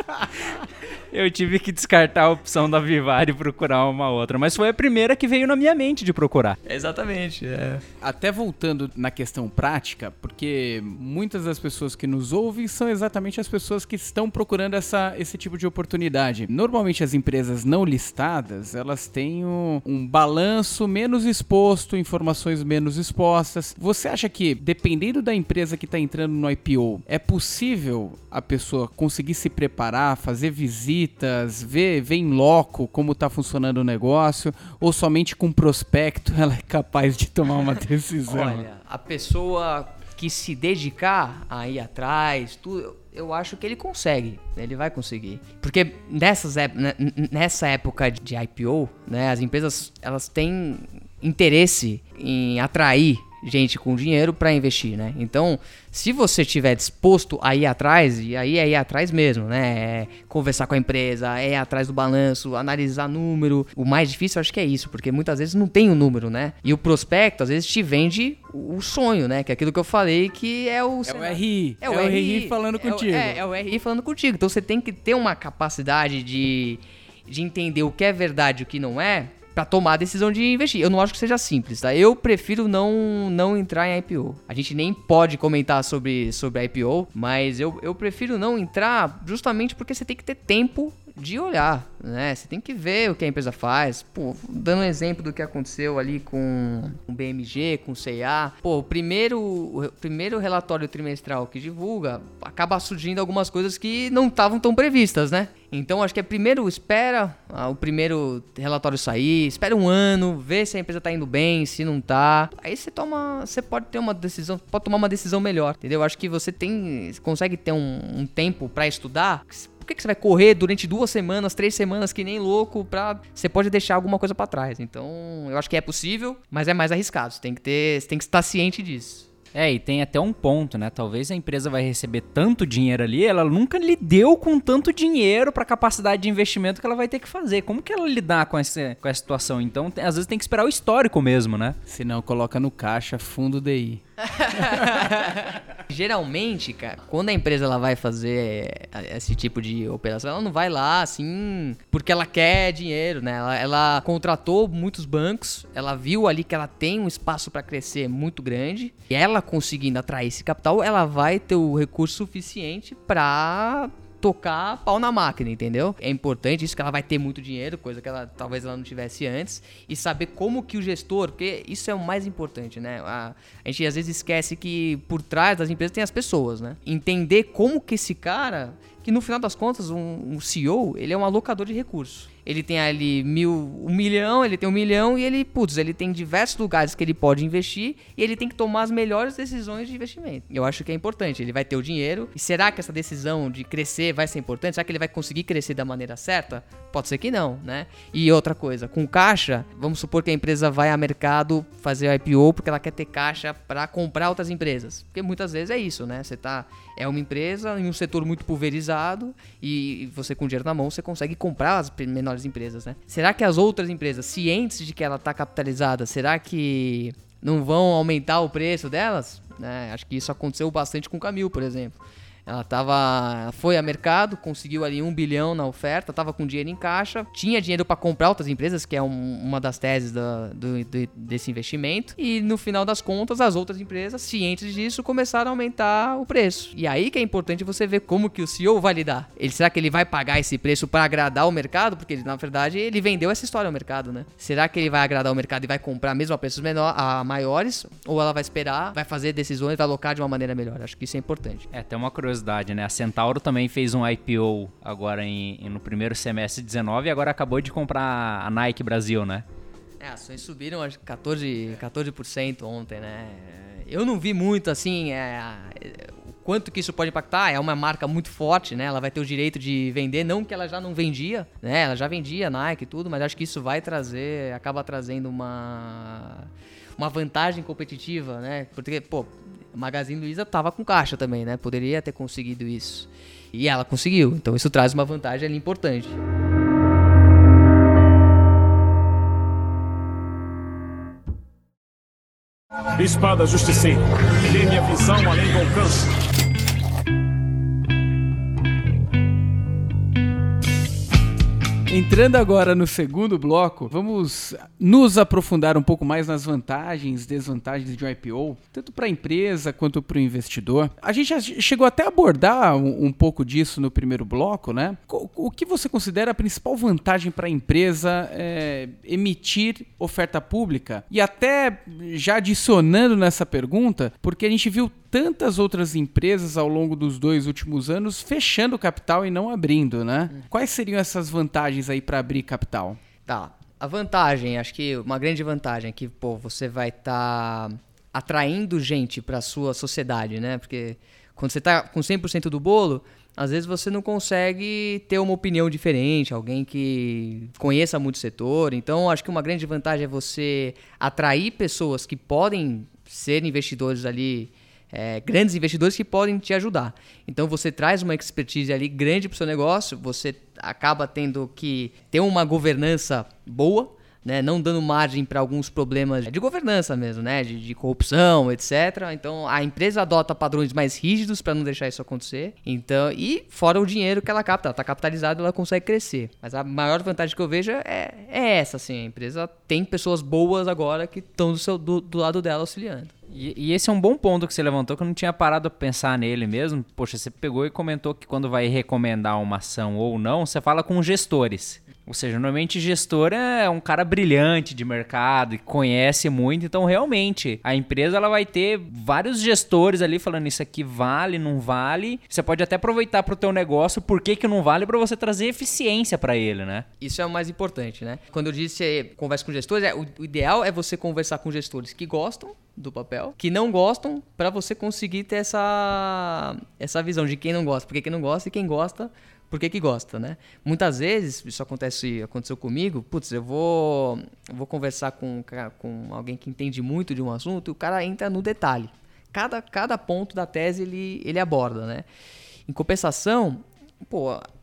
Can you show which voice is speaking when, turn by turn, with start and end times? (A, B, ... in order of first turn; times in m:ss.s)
0:01.1-0:06.6 A
0:06.6-0:07.8 B
0:08.0-0:38.6 C
0:38.3-2:09.3 B
1:11.1-1:13.4 C
2:09.5-2:21.8 A
2:21.9-2:24.0 C
2:24.2-4:11.7 B
2:24.6-2:24.8 C
4:11.7-4:19.4 A
4:20.0-4:46.2 B
4:53.0-4:56.1 D
5:01.9-5:33.0 C
5:33.3-6:23.1 B
6:23.3-6:46.8 A
6:47.0-7:12.0 B
7:12.7-7:14.5 B